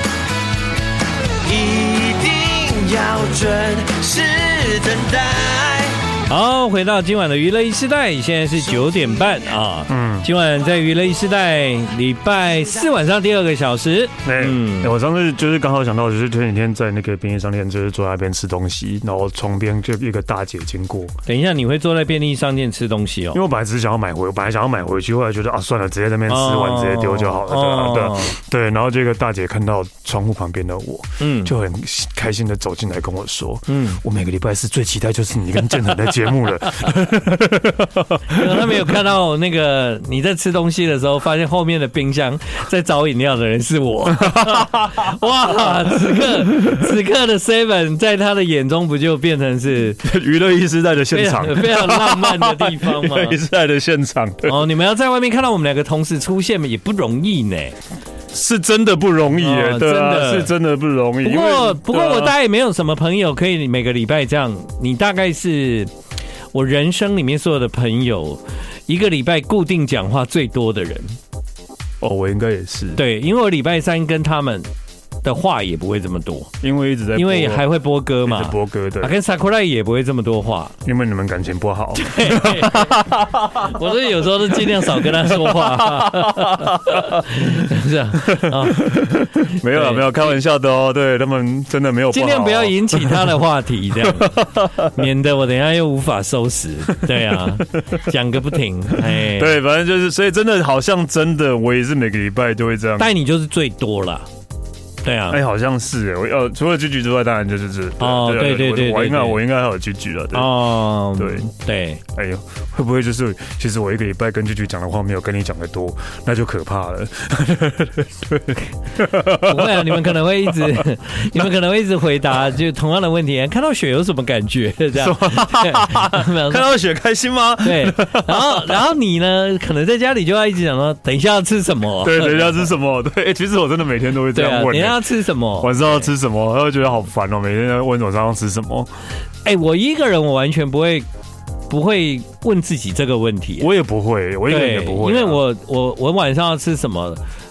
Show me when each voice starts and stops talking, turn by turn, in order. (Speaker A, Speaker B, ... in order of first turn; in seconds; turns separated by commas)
Speaker A: 1.4-6.1, Speaker B: 6.3-14.9, Speaker C: 9.9-10.3, Speaker C: 14.2-21.1, Speaker B: 21.3-23.4, Speaker C: 23.3-38.7, Speaker B: 26.3-28.3, Speaker B: 31.2-31.5, Speaker B: 33.7-34.0, Speaker B: 38.3-50.0, Speaker C: 44.2-46.8, Speaker C: 50.0-54.6, Speaker B: 51.1-53.4, Speaker B: 54.4-57.8, Speaker C: 58.3-62.3, Speaker B: 59.4-60.5, Speaker B: 61.2-65.9, Speaker B: 66.5-71.2, Speaker C: 72.0-73.0, Speaker B: 73.0-74.7, Speaker B: 75.2-76.5, Speaker C: 76.6-77.7, Speaker B: 77.1-80.7, Speaker C: 78.2-79.1, Speaker C: 80.8-83.8, Speaker B: 82.0-83.0, Speaker B: 83.5-90.3, Speaker C: 84.5-87.6, Speaker C: 88.2-93.3, Speaker B: 92.1-99.5, Speaker C: 94.0-94.9, Speaker C: 97.1-97.6, Speaker C: 99.0-103.1, Speaker B: 103.0-104.3, Speaker B: 105.0-105.4, Speaker C: 105.3-110.5, Speaker B: 108.0-109.4, Speaker B: 110.3-112.0, Speaker C: 111.1-111.5, Speaker C: 112.1-120.8, Speaker B: 119.2-126.7, Speaker C: 124.9-128.8, Speaker B: 127.6-132.7, Speaker C: 132.0-135.0, Speaker B: 134.3-136.1, Speaker C: 135.6-138.9, Speaker B: 139.4-141.1, Speaker B: 141.7-143.7, Speaker C: 143.6-145.4, Speaker B: 144.5-147.2